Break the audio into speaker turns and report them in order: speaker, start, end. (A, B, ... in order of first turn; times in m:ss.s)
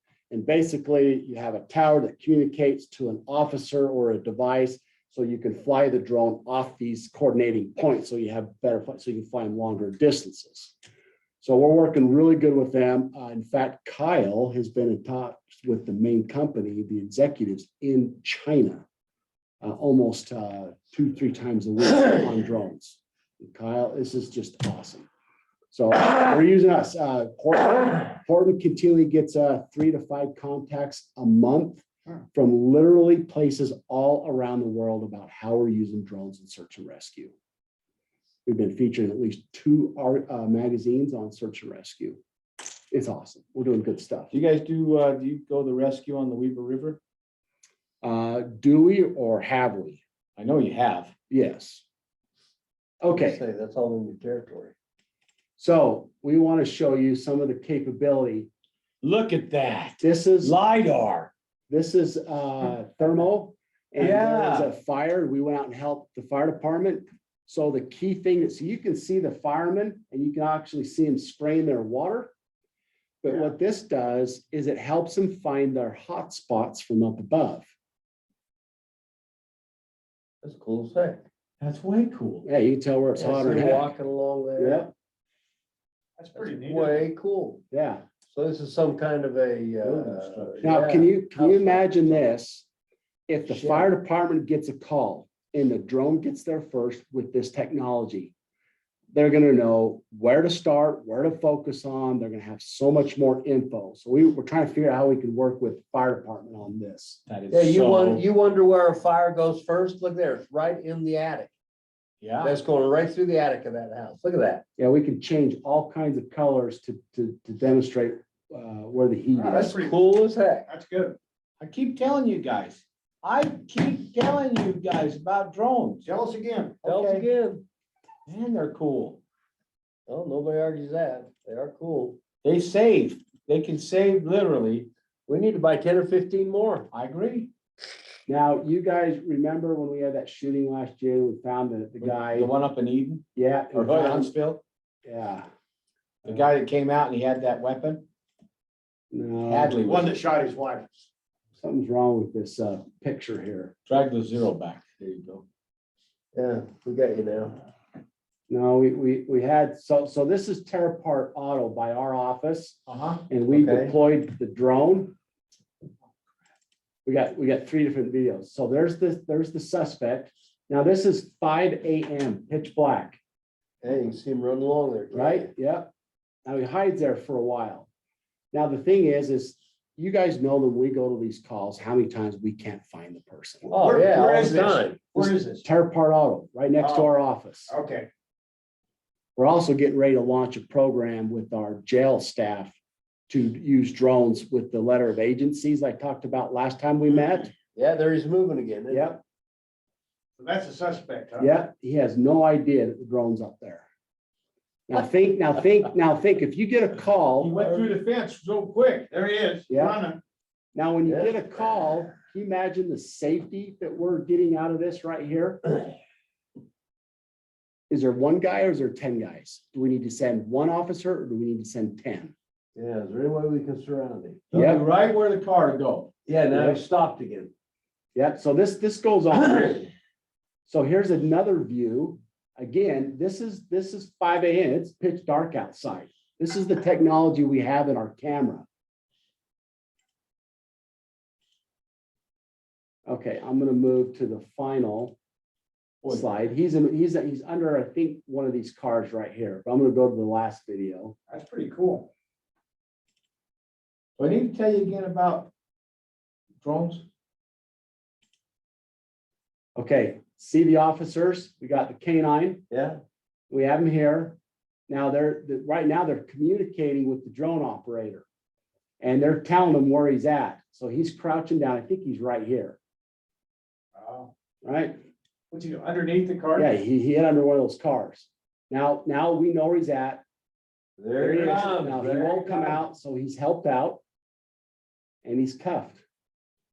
0:00.3-0:10.7 A
0:11.4-0:18.8 A
0:19.6-0:25.1 A
0:25.7-0:37.3 A
0:38.4-0:42.2 A
0:42.9-0:44.3 A
0:44.3-0:47.0 B
0:48.0-0:50.0 A
0:50.4-0:51.1 B
0:51.3-0:51.8 A
0:53.0-0:53.4 A
0:53.1-0:54.7 C
0:55.6-0:58.5 A
0:59.0-1:01.3 B
1:00.0-1:00.6 A
1:01.7-1:12.3 A
1:04.0-1:04.7 B
1:13.2-1:17.7 A
1:20.4-1:21.2 C
1:21.6-1:22.4 B
1:22.4-1:23.9 A
1:23.2-1:24.9 C
1:24.6-1:24.9 A
1:26.2-1:27.1 D
1:26.4-1:27.6 C
1:27.7-1:28.0 A
1:28.3-1:32.2 C
1:29.8-1:30.8 B
1:30.6-1:32.7 A
1:33.3-1:38.3 A
1:33.5-1:33.9 C
1:39.1-1:47.2 A
1:47.3-1:48.2 B
1:47.5-1:51.5 C
1:52.2-1:52.5 B
1:52.4-1:54.6 C
1:54.8-1:59.8 A
1:59.4-2:00.0 D
1:59.6-2:00.7 C
2:00.7-2:01.2 D
2:01.6-2:06.0 B
2:06.0-2:07.2 D
2:06.8-2:07.6 C
2:08.2-2:09.2 B
2:10.1-2:12.2 C
2:12.4-2:14.9 B
2:15.3-2:16.9 C
2:16.9-2:17.5 B
2:18.3-2:22.5 A
2:22.0-2:24.6 B
2:23.3-2:24.3 A
2:25.0-2:25.5 A
2:26.2-2:28.0 B
2:29.1-2:29.8 A
2:29.4-2:30.1 B
2:29.8-2:30.9 D
2:31.6-2:33.7 A
2:33.9-2:35.4 B
2:36.3-2:37.6 C
2:38.5-2:45.1 A
2:42.9-2:43.2 B
2:43.5-2:43.9 C
2:47.0-2:53.2 A
2:53.8-2:55.5 C
2:55.1-2:55.9 A
2:56.4-2:57.9 A
2:58.5-3:03.7 A
3:03.6-3:05.6 D
3:03.7-3:05.0 C
3:05.1-3:07.7 A
3:06.8-3:07.1 D
3:07.7-3:08.1 D
3:09.4-3:12.7 A
3:13.3-3:17.5 A
3:17.7-3:19.1 C
3:18.9-3:19.2 A
3:20.4-3:21.5 D
3:21.4-3:23.8 A
3:24.9-3:27.5 A
3:27.4-3:29.0 B
3:27.5-3:28.1 D
3:29.0-3:30.2 D
3:29.7-3:30.0 A
3:30.7-3:35.8 A
3:31.0-3:31.4 C
3:37.9-3:42.3 A
3:42.8-3:44.7 C
3:44.5-3:46.1 B
3:44.5-3:44.8 A
3:46.3-3:47.5 C
3:46.5-3:46.8 A
3:48.1-3:49.9 A
3:50.7-3:58.6 A
4:03.1-4:05.2 A
4:06.1-4:11.2 A
4:11.3-4:12.1 D
4:14.2-4:15.5 B
4:16.6-4:17.0 B
4:19.8-4:22.6 A
4:22.7-4:23.0 C
4:23.5-4:24.4 A
4:24.9-4:28.2 A
4:29.0-4:32.8 A
4:34.0-4:34.3 D
4:34.6-4:35.0 A
4:35.5-4:36.7 D
4:36.6-4:40.2 A
4:41.0-4:42.8 C
4:41.2-4:44.0 A
4:41.4-4:41.7 D
4:45.2-4:46.0 A